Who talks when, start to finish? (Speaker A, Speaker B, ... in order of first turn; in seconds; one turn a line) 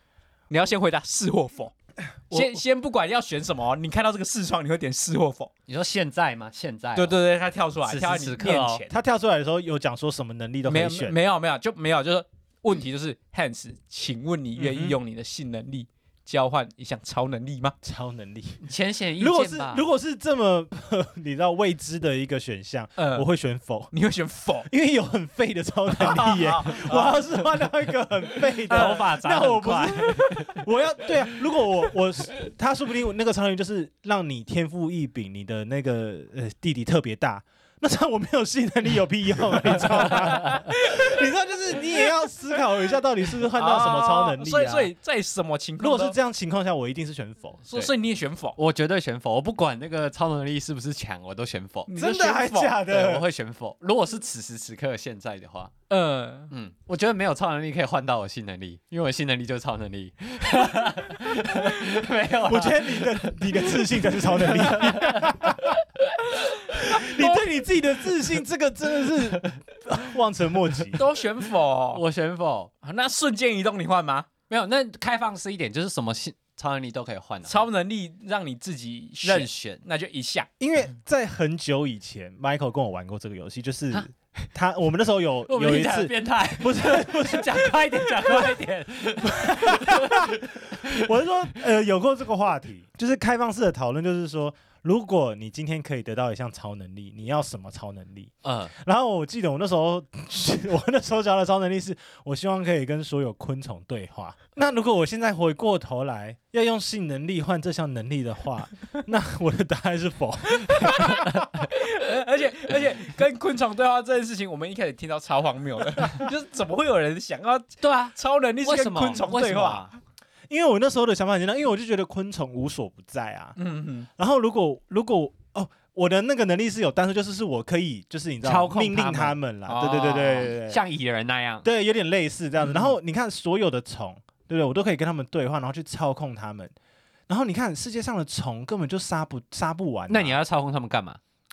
Speaker A: 0.5-1.7
Speaker B: 2.3-2.6
Speaker A: 2.3-5.5
Speaker C: 5.7-7.2
Speaker A: 6.9-8.9
Speaker C: 7.8-8.8
Speaker B: 8.9-11.2
Speaker A: 10.7-17.7
Speaker B: 14.6-15.0
Speaker B: 17.8-18.6
Speaker C: 18.6-19.8
Speaker B: 19.2-23.9
Speaker A: 23.0-23.3
Speaker A: 23.9-24.7
Speaker B: 24.7-44.9
Speaker A: 25.9-27.2
Speaker A: 28.7-29.0
Speaker C: 28.7-30.6
Speaker A: 40.0-41.1
Speaker A: 43.5-46.1
Speaker B: 45.8-47.9
Speaker A: 47.6-48.5
Speaker C: 48.5-51.9
Speaker A: 51.9-52.8
Speaker B: 51.9-53.2
Speaker C: 52.8-55.7
Speaker A: 55.9-56.5
Speaker C: 56.5-65.8
Speaker B: 62.4-65.8
Speaker A: 66.3-67.5
Speaker B: 66.8-71.0
Speaker A: 71.0-72.0
Speaker C: 71.9-72.7
Speaker A: 72.8-74.3
Speaker C: 74.5-77.7
Speaker A: 77.5-80.5
Speaker C: 79.2-79.8
Speaker B: 80.6-88.6
Speaker C: 85.5-91.0
Speaker B: 89.2-111.7
Speaker C: 98.4-98.7
Speaker A: 110.6-119.9
Speaker C: 117.8-119.9
Speaker B: 120.5-123.6
Speaker A: 123.6-124.1
Speaker B: 124.2-130.8
Speaker C: 128.4-131.7
Speaker A: 129.7-130.4
Speaker B: 131.6-136.7
Speaker B: 137.3-140.4
Speaker C: 140.1-141.2